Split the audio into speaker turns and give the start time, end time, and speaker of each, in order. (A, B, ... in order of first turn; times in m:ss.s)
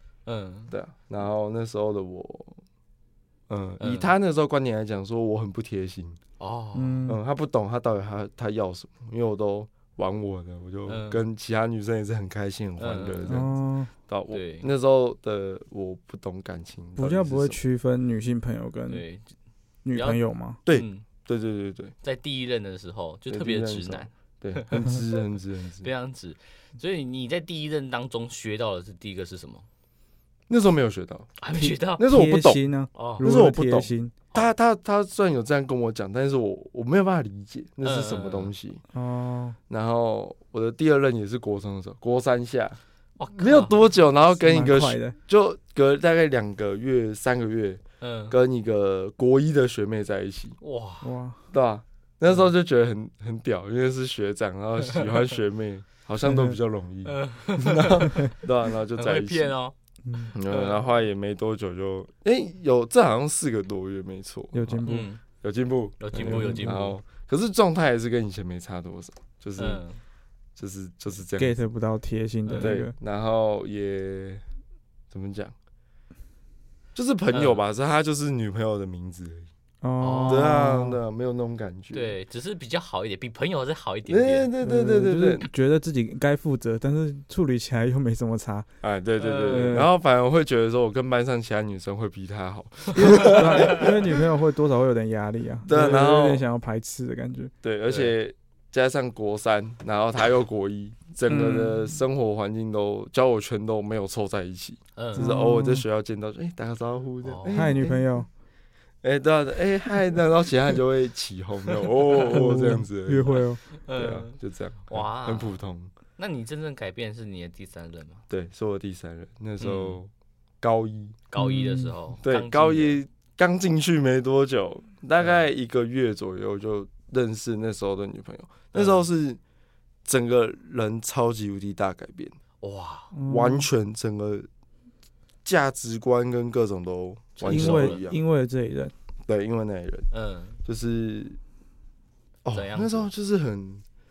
0:00.3-0:00.7 A
0:00.7-0:02.6 B
0:03.5-0:06.2 B
0:03.8-0:04.1 A
0:06.4-0:07.1 A
0:06.8-0:07.2 C
0:07.1-0:13.5 B
0:10.9-0:11.2 A
0:12.8-0:13.5 A
0:13.3-0:13.9 C
0:14.1-0:17.6 B
0:14.3-0:14.7 A
0:17.0-0:19.0 C
0:18.9-0:19.4 A
0:19.8-0:20.6 C
0:19.9-0:21.0 A
0:20.6-0:21.9 B
0:22.0-0:25.2 A
0:23.3-0:25.9 B
0:25.8-0:29.7 A
0:30.5-0:31.3 B
0:31.4-0:32.1 A
0:31.6-0:34.2 C
0:32.0-0:32.6 B
0:32.9-0:33.2 A
0:33.2-0:38.8 B
0:37.8-0:38.5 A
0:38.9-0:39.6 C
0:39.7-0:42.8 B
0:43.2-0:43.8 A
0:43.4-0:50.6 B
0:44.4-0:45.2 C
0:48.0-0:48.4 A
0:50.6-0:51.1 A
0:51.0-0:51.4 C
0:51.5-0:59.5 B
0:54.9-0:55.1 A
0:56.2-0:56.6 C
0:57.1-0:58.4 A
0:58.9-0:59.8 A
1:00.1-1:00.3 C
1:00.3-1:09.8 B
1:00.4-1:00.8 A
1:04.5-1:05.1 C
1:04.9-1:05.2 A
1:06.0-1:07.0 A
1:06.3-1:06.8 C
1:09.6-1:10.0 A
1:10.6-1:11.5 B
1:11.4-1:12.9 C
1:12.5-1:12.8 A
1:12.6-1:14.4 B
1:15.1-1:15.6 B
1:17.0-1:19.5 B
1:17.3-1:17.6 A
1:19.8-1:21.0 C
1:20.0-1:20.6 A
1:20.3-1:22.1 B
1:21.9-1:24.5 A
1:24.1-1:25.5 B
1:24.6-1:28.7 C
1:28.8-1:34.2 B
1:29.2-1:29.8 A
1:29.5-1:29.9 C
1:32.9-1:37.5 C
1:33.1-1:33.8 A
1:35.7-1:36.4 B
1:37.6-1:48.3 B
1:37.9-1:38.2 A
1:41.3-1:42.0 C
1:45.0-1:45.3 A
1:45.2-1:45.8 C
1:47.2-1:47.7 A
1:47.5-1:48.3 C
1:49.0-1:53.4 B
1:52.3-1:53.6 C
1:53.7-1:54.4 A
1:53.9-1:55.9 B
1:54.9-1:55.6 A
1:56.2-1:58.2 A
1:58.3-2:01.2 B
1:59.6-2:00.0 A
2:01.3-2:03.0 A
2:01.4-2:02.0 C
2:02.2-2:09.4 B
2:08.7-2:09.0 A
2:10.0-2:12.4 B
2:12.6-2:13.1 A
2:13.1-2:13.7 C
2:13.3-2:14.5 B
2:15.4-2:18.2 B
2:17.4-2:18.0 A
2:17.5-2:18.9 C
2:19.3-2:20.1 B
2:20.1-2:20.6 A
2:20.6-2:21.4 B
2:22.4-2:23.8 B
2:22.5-2:23.1 A